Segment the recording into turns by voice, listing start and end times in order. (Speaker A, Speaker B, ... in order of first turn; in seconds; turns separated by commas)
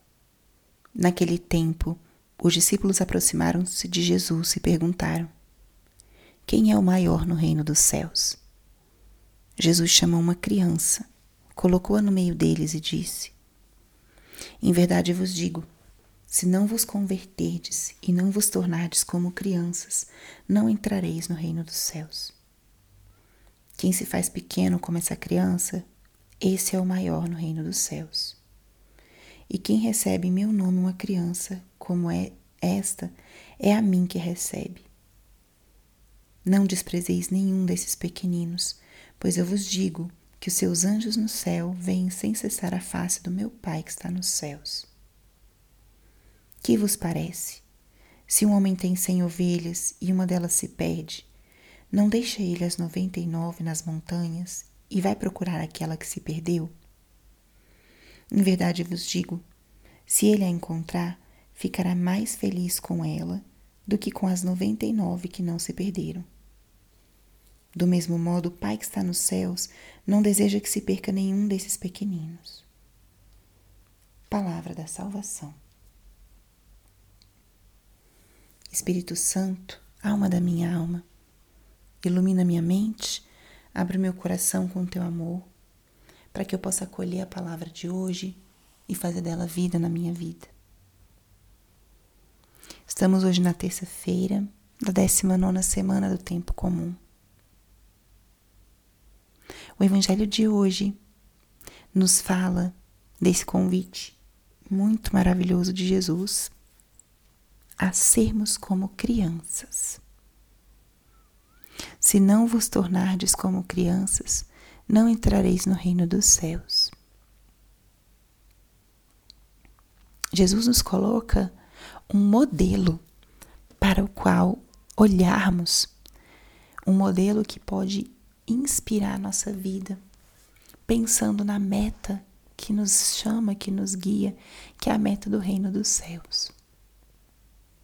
Speaker A: 0.9-5.3, Speaker A: 6.5-8.4, Speaker A: 9.6-13.3, Speaker A: 14.6-15.7, Speaker A: 16.3-22.4, Speaker A: 23.8-25.9, Speaker A: 26.4-28.4, Speaker A: 29.5-34.9, Speaker A: 36.4-44.9, Speaker A: 46.6-47.6, Speaker A: 48.3-51.3, Speaker A: 51.9-56.7, Speaker A: 58.3-59.5, Speaker A: 60.1-66.3, Speaker A: 67.7-72.7, Speaker A: 74.3-75.6, Speaker A: 78.7-81.0, Speaker A: 82.0-85.5, Speaker A: 86.3-90.5, Speaker A: 92.9-97.0, Speaker A: 99.8-101.0, Speaker A: 101.9-104.2, Speaker A: 104.7-106.5, Speaker A: 107.8-110.0, Speaker A: 112.0-116.9, Speaker A: 120.3-121.5, Speaker A: 122.1-123.0, Speaker A: 123.8-125.9, Speaker A: 126.9-130.0, Speaker A: 130.9-136.5